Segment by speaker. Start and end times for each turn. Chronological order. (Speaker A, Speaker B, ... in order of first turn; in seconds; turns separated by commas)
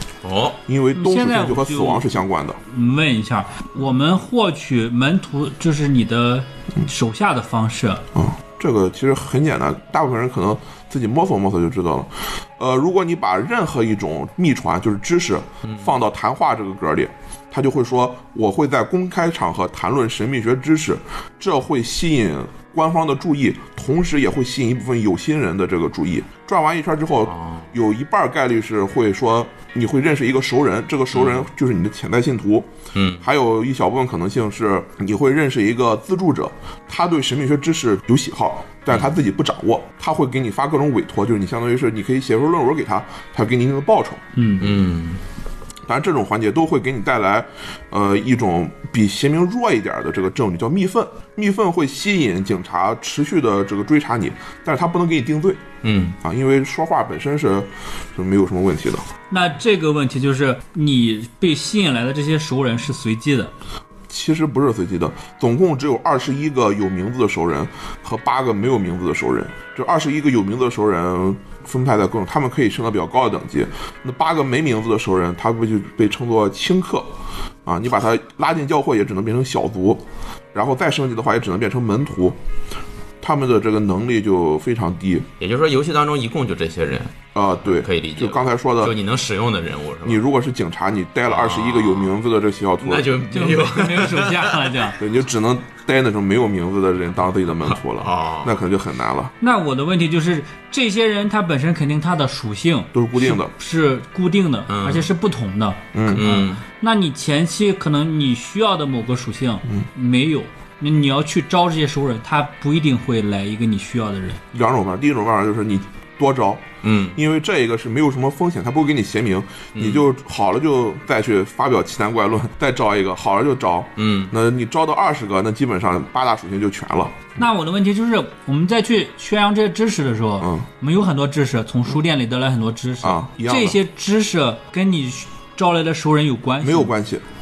Speaker A: 0.2-0.6, Speaker B: 0.7-2.6, Speaker C: 0.9-8.0, Speaker B: 8.1-32.7, Speaker A: 15.6-15.9, Speaker A: 27.3-27.7, Speaker A: 31.1-31.5, Speaker A: 32.9-33.2, Speaker B: 33.2-44.2, Speaker C: 44.3-44.7, Speaker A: 44.6-45.2, Speaker B: 45.8-55.6, Speaker A: 55.8-56.2, Speaker B: 56.2-59.1, Speaker C: 59.3-63.5, Speaker B: 64.1-77.1, Speaker B: 77.7-82.4, Speaker B: 83.2-85.3, Speaker A: 85.4-90.2, Speaker B: 87.3-89.0, Speaker B: 90.0-93.1, Speaker A: 91.3-92.2, Speaker A: 92.8-94.7, Speaker C: 93.3-95.0, Speaker B: 95.0-99.3, Speaker A: 97.9-98.5, Speaker C: 99.4-114.4, Speaker B: 102.9-103.5, Speaker A: 104.7-105.1, Speaker B: 105.9-106.2, Speaker A: 106.1-106.6, Speaker B: 114.5-127.4, Speaker A: 116.8-117.2, Speaker A: 119.7-120.0, Speaker A: 124.0-124.3, Speaker C: 127.4-136.9, Speaker B: 133.0-133.8, Speaker B: 136.6-137.2